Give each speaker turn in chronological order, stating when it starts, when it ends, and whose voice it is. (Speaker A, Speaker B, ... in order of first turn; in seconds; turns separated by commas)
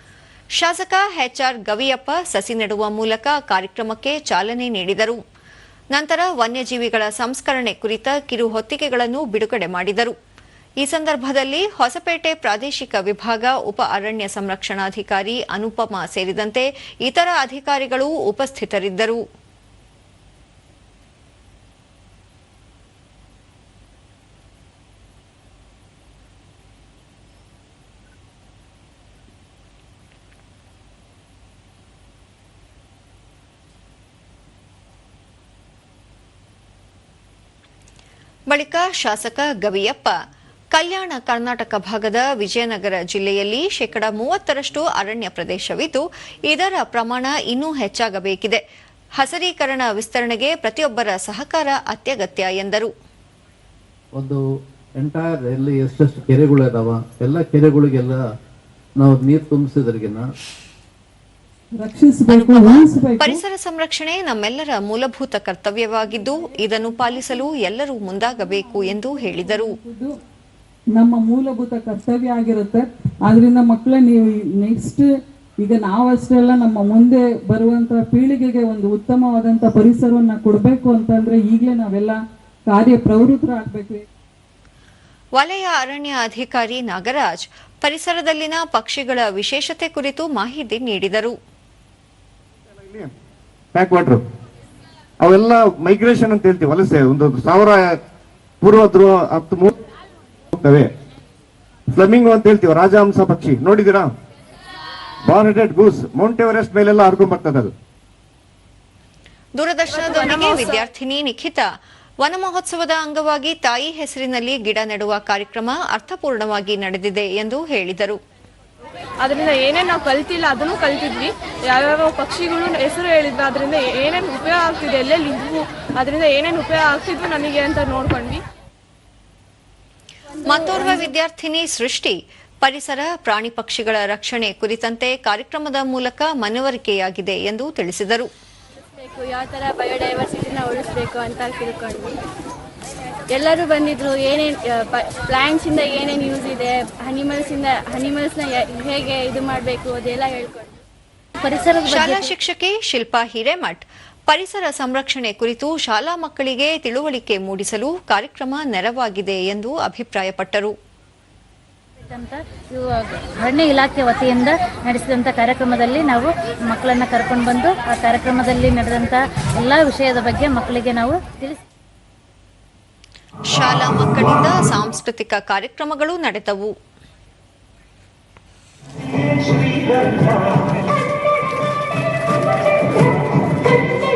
Speaker A: 0.6-5.2, Speaker A: 5.9-10.1, Speaker A: 10.8-19.2, Speaker A: 38.5-40.1, Speaker A: 40.7-48.6, Speaker A: 49.2-52.9, Speaker B: 54.2-54.4, Speaker B: 55.0-58.2, Speaker B: 59.0-60.2, Speaker C: 61.8-63.4, Speaker A: 62.3-69.8, Speaker C: 68.8-70.1, Speaker C: 71.0-75.1, Speaker C: 75.6-84.0, Speaker A: 85.4-91.4, Speaker D: 92.8-93.1, Speaker D: 93.7-94.2, Speaker D: 95.2-98.0, Speaker D: 98.6-99.7, Speaker D: 100.5-100.9, Speaker D: 101.9-104.1, Speaker D: 105.3-107.7, Speaker A: 109.6-111.7, Speaker E: 109.9-110.8, Speaker A: 112.2-118.2, Speaker E: 119.2-128.4, Speaker A: 130.4-138.3, Speaker F: 130.7-131.0, Speaker F: 139.0-142.2, Speaker F: 143.3-150.8, Speaker G: 151.4-152.3, Speaker A: 151.8-160.7, Speaker G: 162.1-171.6, Speaker A: 173.5-176.7